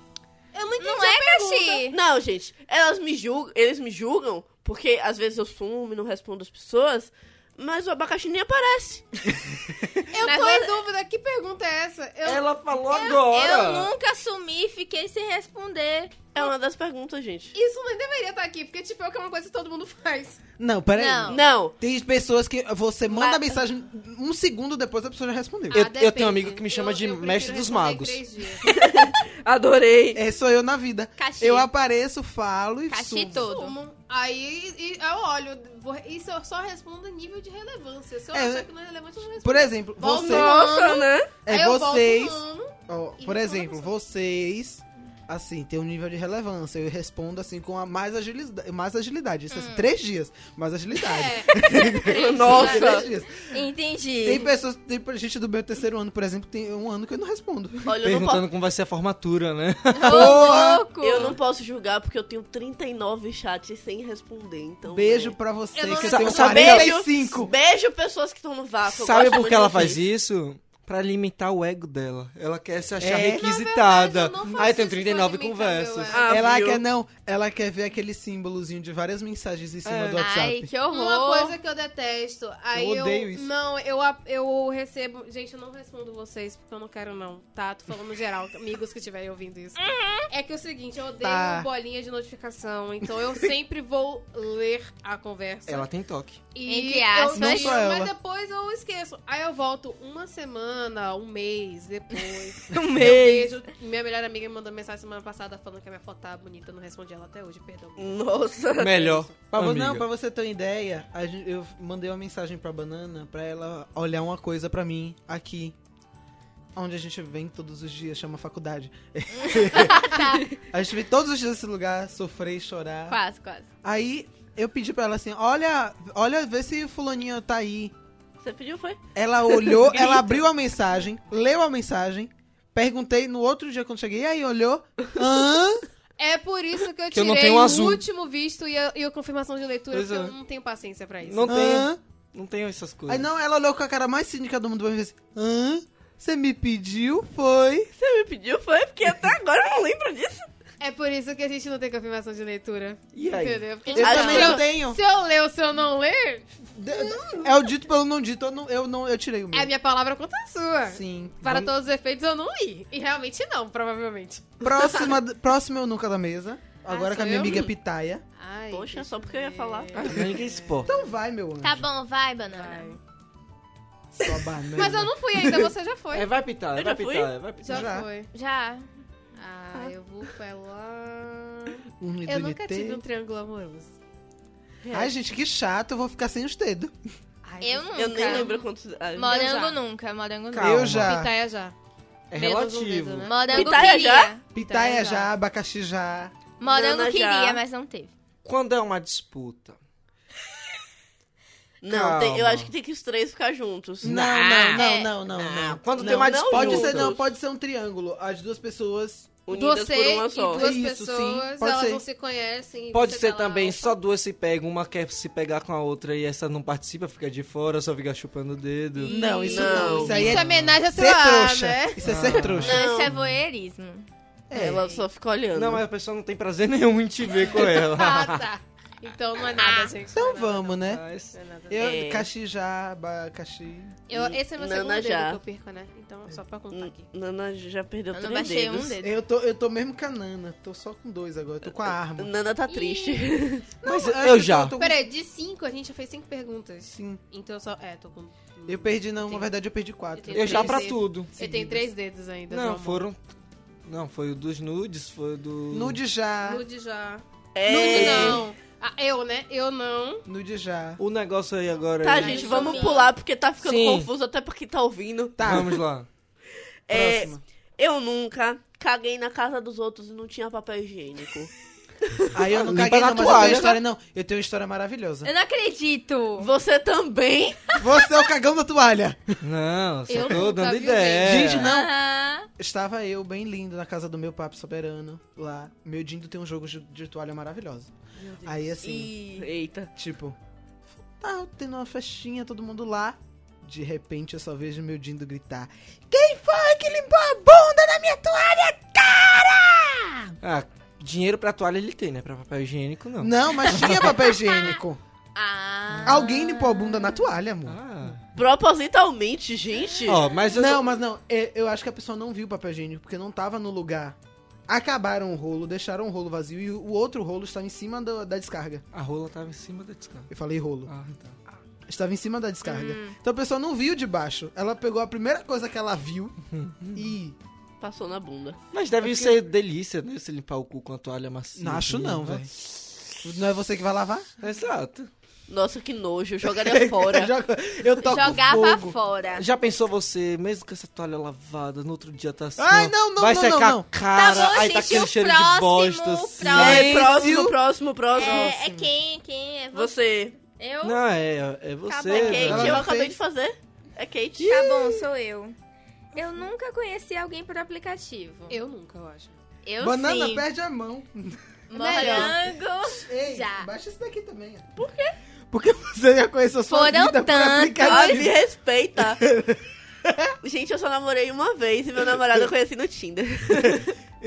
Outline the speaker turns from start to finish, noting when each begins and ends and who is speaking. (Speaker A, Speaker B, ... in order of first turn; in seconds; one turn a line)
Speaker A: 0.5-1.9
Speaker B: 0.8-2.0
Speaker C: 1.9-9.1
Speaker A: 10.1-12.5
Speaker B: 10.2-10.7
Speaker D: 12.2-13.9
Speaker B: 12.9-16.2
Speaker C: 16.3-17.5
Speaker A: 17.5-20.4
Speaker E: 20.6-25.9
Speaker B: 20.9-21.4
Speaker C: 21.3-21.8
Speaker C: 23.1-23.6
Speaker D: 25.7-28.2
Speaker A: 25.7-28.8
Speaker C: 28.6-30.2
Speaker E: 30.1-33.5
Speaker B: 31.2-31.7
Speaker B: 32.9-33.8
Speaker A: 33.4-43.9
Speaker E: 38.3-38.7
Speaker E: 39.4-40.5
Speaker C: 40.0-41.3
Speaker E: 41.4-53.5
Speaker B: 49.5-49.9
Speaker A: 51.0-53.1
Speaker C: 52.0-53.1
Speaker B: 53.5-54.5
Speaker E: 54.2-57.9
Speaker C: 57.9-58.5
Speaker D: 58.0-60.5
Speaker B: 60.0-61.4
Speaker E: 60.0-60.9
Speaker C: 61.0-65.3
Speaker E: 64.8-67.5
Speaker A: 65.7-66.9
Speaker C: 66.0-70.0
Speaker D: 66.2-66.8
Speaker D: 68.8-76.2
Speaker E: 73.0-73.5
Speaker A: 73.1-76.3
Speaker C: 76.1-76.8
Speaker E: 76.3-80.7
Speaker D: 79.8-80.3
Speaker B: 80.2-81.5
Speaker A: 80.9-95.9
Speaker E: 82.7-83.5
Speaker B: 89.8-90.3
Speaker E: 91.2-91.7
Speaker D: 95.7-96.4
Speaker A: 96.5-108.4
Speaker B: 96.6-97.8
Speaker E: 97.3-98.1
Speaker B: 102.7-103.5
Speaker C: 108.0-109.1
Speaker D: 108.8-110.1
Speaker A: 108.9-109.2
Speaker E: 109.5-115.7
Speaker E: 116.7-123.2
Speaker B: 119.8-120.4
Speaker B: 123.1-123.7
Speaker E: 123.8-127.9
Speaker C: 128.4-129.0
Speaker E: 129.1-135.8
Speaker C: 129.7-130.4
Speaker A: 136.2-141.6
Speaker D: 137.1-138.0
Speaker D: 139.9-140.3
Speaker D: 141.2-143.3
Speaker E: 141.4-142.0
Speaker E: 143.1-147.9
Speaker C: 148.0-150.5
Speaker A: 150.8-157.4
Speaker D: 153.1-153.6
Speaker B: 153.9-154.5
Speaker E: 153.9-155.0
Speaker C: 154.0-154.6
Speaker E: 156.8-159.7
Speaker A: 159.5-164.7
Speaker E: 160.9-161.6
Speaker E: 164.6-168.2
Speaker A: 166.8-167.7
Speaker A: 168.4-170.9
Speaker C: 168.7-170.2
Speaker D: 169.9-170.9
Speaker E: 170.8-171.9
Speaker B: 171.6-172.9
Speaker A: 172.5-173.0
Speaker E: 174.2-175.6
Speaker A: 174.8-176.3
Speaker D: 176.1-177.9
Speaker C: 176.8-177.3
Speaker A: 177.6-178.3
Speaker E: 177.7-178.1
Speaker B: 178.3-178.9
Speaker A: 179.3-183.9
Speaker E: 182.0-183.0
Speaker C: 184.8-185.1
Speaker E: 184.9-186.9
Speaker A: 187.4-188.6
Speaker B: 187.6-188.6
Speaker C: 187.9-189.4
Speaker B: 189.1-190.9
Speaker A: 189.2-189.8
Speaker D: 190.5-191.1
Speaker E: 190.6-191.3
Speaker A: 191.0-191.7
Speaker D: 192.3-193.3
Speaker A: 192.3-195.3
Speaker B: 193.2-194.4
Speaker C: 193.5-194.4
Speaker E: 194.5-196.3
Speaker B: 196.6-198.1
Speaker C: 196.6-197.6
Speaker D: 198.4-199.8
Speaker C: 201.8-204.2
Speaker D: 201.9-202.7
Speaker E: 204.0-209.3
Speaker B: 204.1-205.1
Speaker D: 205.3-207.2
Speaker C: 205.9-207.2
Speaker C: 209.4-210.7
Speaker A: 209.5-214.0
Speaker E: 210.5-212.0
Speaker D: 212.9-219.2
Speaker B: 219.0-220.1
Speaker A: 219.1-222.0
Speaker E: 219.1-222.8
Speaker C: 219.5-220.2
Speaker D: 220.1-220.7
Speaker D: 222.0-222.8
Speaker C: 222.6-223.1
Speaker B: 222.6-224.1
Speaker E: 224.5-224.8
Speaker C: 224.5-225.8
Speaker A: 224.8-225.0
Speaker D: 225.5-228.5
Speaker A: 227.3-231.8
Speaker B: 229.6-229.9
Speaker E: 230.1-231.0
Speaker D: 230.8-231.3
Speaker E: 231.7-234.0
Speaker C: 231.8-232.3
Speaker A: 234.1-237.1
Speaker C: 234.1-235.4
Speaker C: 236.7-239.0
Speaker B: 238.1-239.1
Speaker E: 239.0-242.3
Speaker C: 242.2-243.7
Speaker B: 242.7-243.2
Speaker E: 243.8-245.1
Speaker D: 243.8-244.8
Speaker A: 244.8-249.5
Speaker E: 246.9-247.2
Speaker E: 248.7-251.9
Speaker A: 250.1-253.1
Speaker D: 250.3-251.3
Speaker D: 252.5-253.2
Speaker D: 253.8-256.0
Speaker E: 255.7-256.6
Speaker A: 256.4-260.2
Speaker C: 257.5-258.4
Speaker E: 257.6-258.4
Speaker E: 260.2-261.0
Speaker D: 261.0-262.5
Speaker C: 262.0-265.5
Speaker A: 262.1-263.1
Speaker B: 262.3-263.1
Speaker D: 263.6-264.1
Speaker E: 265.4-265.8
Speaker D: 265.4-266.1
Speaker C: 266.9-271.5
Speaker E: 266.9-267.4
Speaker E: 272.3-275.3
Speaker D: 272.5-273.8
Speaker B: 275.2-276.5
Speaker C: 276.4-277.8
Speaker E: 277.8-279.4
Speaker D: 279.4-281.7
Speaker A: 280.1-281.5
Speaker E: 281.2-281.9
Speaker B: 281.6-282.5
Speaker E: 282.6-287.9
Speaker C: 288.2-289.9
Speaker E: 288.4-290.4
Speaker E: 291.2-300.4
Speaker D: 300.4-304.2
Speaker E: 303.2-305.0
Speaker B: 304.3-304.8
Speaker B: 305.3-307.2
Speaker D: 305.9-306.3
Speaker E: 306.0-307.8
Speaker D: 307.6-308.2
Speaker C: 308.3-310.3
Speaker D: 310.1-310.9
Speaker E: 310.5-314.1
Speaker E: 314.7-318.8
Speaker D: 318.9-320.3
Speaker E: 320.3-320.9
Speaker D: 320.9-321.4
Speaker E: 321.9-327.4
Speaker B: 322.6-323.1
Speaker D: 326.6-327.0
Speaker C: 327.8-328.6
Speaker D: 328.7-332.5
Speaker E: 329.0-329.4
Speaker E: 331.6-332.5
Speaker E: 333.2-334.3
Speaker D: 334.4-335.1
Speaker C: 335.5-337.3
Speaker E: 336.4-339.0
Speaker B: 338.0-339.4
Speaker D: 339.3-347.2
Speaker E: 342.6-343.9
Speaker B: 344.1-347.1
Speaker E: 346.5-347.6
Speaker C: 346.5-348.6
Speaker B: 348.1-349.9
Speaker E: 348.2-348.9
Speaker C: 349.7-350.4
Speaker B: 350.5-351.0
Speaker D: 350.8-352.9
Speaker B: 351.9-352.6
Speaker C: 352.1-354.9
Speaker E: 352.1-353.1
Speaker B: 354.4-355.6
Speaker B: 356.1-358.6
Speaker A: 358.5-359.4
Speaker B: 359.6-360.4
Speaker E: 359.8-362.4
Speaker B: 361.7-363.7
Speaker A: 361.7-362.4
Speaker E: 362.9-364.6
Speaker C: 364.8-365.1
Speaker E: 365.5-368.3
Speaker B: 366.7-368.3
Speaker C: 367.8-369.2
Speaker E: 369.0-370.3
Speaker C: 370.4-373.9